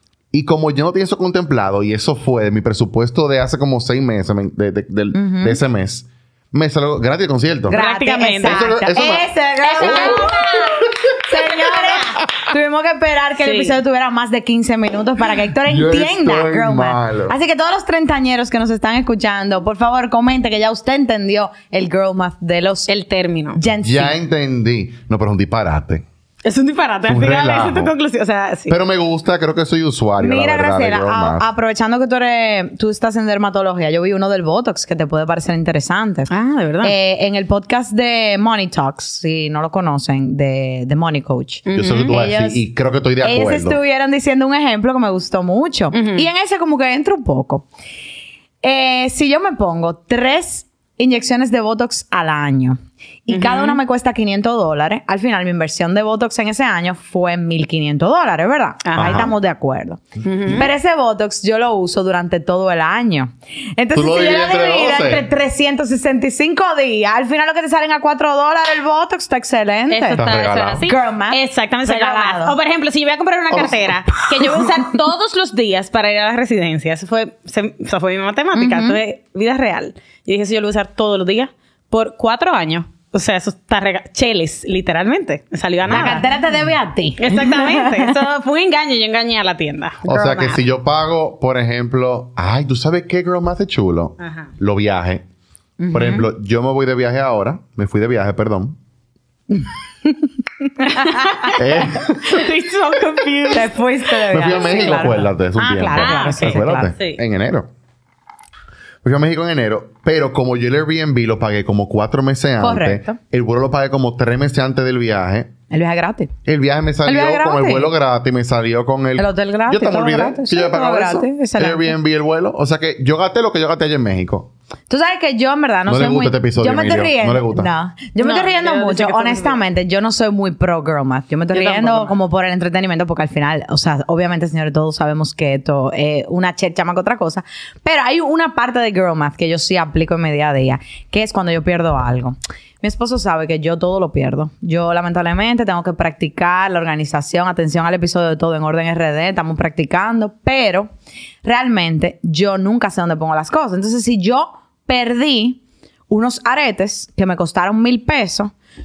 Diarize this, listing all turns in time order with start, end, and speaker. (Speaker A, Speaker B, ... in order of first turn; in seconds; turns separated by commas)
Speaker A: 0.3-7.8, Speaker B: 5.1-5.6, Speaker B: 7.7-22.9, Speaker C: 7.7-8.7, Speaker A: 8.4-11.0, Speaker C: 9.6-10.8, Speaker C: 13.4-13.8, Speaker A: 15.7-17.4, Speaker C: 22.9-23.6, Speaker B: 23.5-24.1, Speaker A: 23.8-26.0, Speaker C: 26.4-28.8, Speaker A: 27.1-27.9, Speaker A: 28.7-31.4, Speaker B: 30.2-36.3, Speaker C: 36.3-36.9, Speaker B: 36.8-42.6, Speaker C: 41.7-42.1, Speaker A: 41.8-43.8, Speaker B: 43.2-47.7, Speaker C: 45.9-46.3, Speaker B: 48.6-70.2, Speaker C: 53.3-53.8, Speaker C: 58.9-59.3, Speaker A: 59.0-59.3, Speaker C: 60.2-60.7, Speaker A: 63.9-65.3, Speaker C: 69.9-86.2, Speaker A: 70.2-70.9, Speaker B: 70.8-72.6, Speaker A: 73.5-74.0, Speaker B: 78.5-79.0, Speaker B: 85.9-88.1, Speaker C: 87.2-90.6, Speaker A: 90.0-95.2, Speaker C: 94.2-94.5, Speaker B: 95.8-96.2, Speaker A: 95.9-98.8, Speaker B: 99.5-101.5, Speaker C: 101.0-103.7, Speaker A: 101.5-102.4, Speaker B: 103.5-106.9, Speaker A: 104.3-107.7, Speaker C: 104.5-104.7, Speaker C: 105.9-107.2, Speaker A: 109.0-115.5, Speaker B: 112.6-113.2, Speaker B: 115.7-116.3, Speaker A: 116.5-124.5, Speaker B: 117.0-117.9, Speaker B: 119.2-121.9, Speaker B: 124.9-150.9, Speaker A: 125.9-127.7, Speaker C: 128.2-129.6, Speaker C: 131.5-132.1, Speaker B: 151.4-158.5